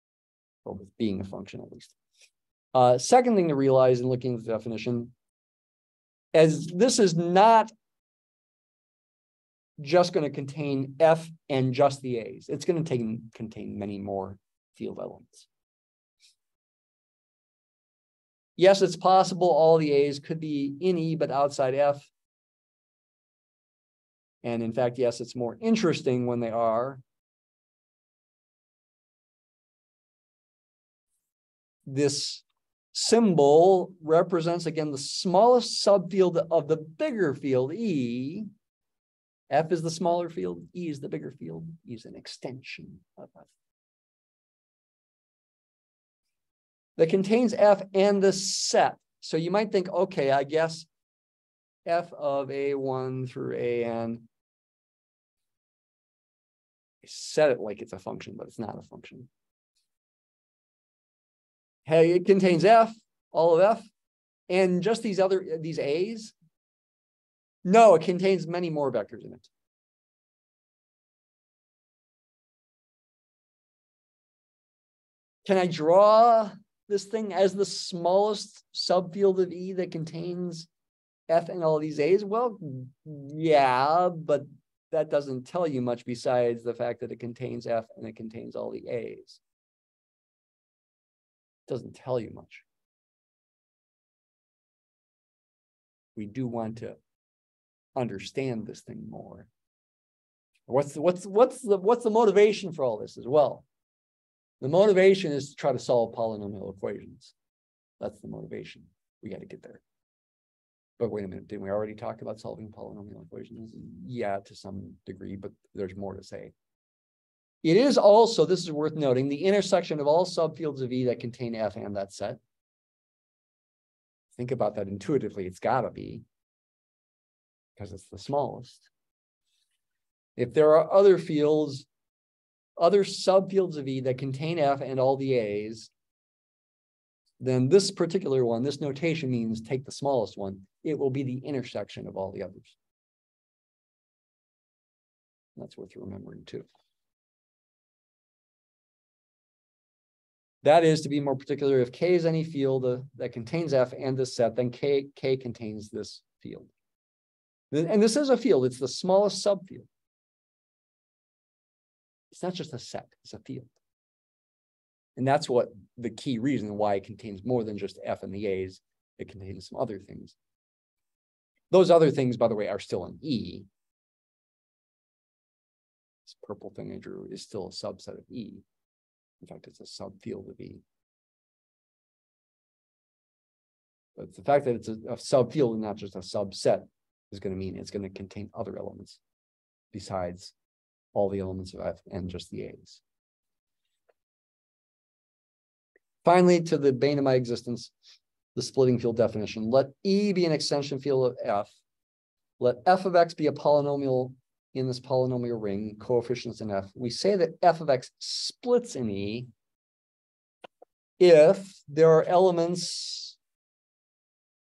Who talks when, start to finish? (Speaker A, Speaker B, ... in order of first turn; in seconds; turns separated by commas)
Speaker A: 0.7-2.0, Speaker A: 2.7-5.1, Speaker A: 6.3-7.7, Speaker A: 9.8-15.5, Speaker A: 18.6-22.1, Speaker A: 24.4-27.0, Speaker A: 31.9-38.5, Speaker A: 39.5-43.5, Speaker A: 47.0-50.9, Speaker A: 51.9-54.2, Speaker A: 57.0-59.3, Speaker A: 61.9-63.9, Speaker A: 64.5-66.3, Speaker A: 67.7-69.5, Speaker A: 75.5-80.7, Speaker A: 81.3-89.4, Speaker A: 91.7-92.7, Speaker A: 96.2-97.0, Speaker A: 98.0-99.5, Speaker A: 100.7-103.7, Speaker A: 104.6-107.3, Speaker A: 108.0-109.8, Speaker A: 111.0-116.5, Speaker A: 117.6-122.4, Speaker A: 124.3-126.2, Speaker A: 127.8-128.9, Speaker A: 130.4-131.9, Speaker A: 132.8-135.9, Speaker A: 137.4-142.8, Speaker A: 145.6-146.7, Speaker A: 150.6-156.7, Speaker A: 157.7-159.9, Speaker A: 162.3-163.7, Speaker A: 165.2-170.4, Speaker A: 171.7-173.7, Speaker A: 176.3-178.6, Speaker A: 179.4-180.8, Speaker A: 184.2-189.2, Speaker A: 189.9-190.5, Speaker A: 191.1-193.0, Speaker A: 196.2-197.9, Speaker A: 198.6-201.8, Speaker A: 202.6-209.5, Speaker A: 211.2-213.4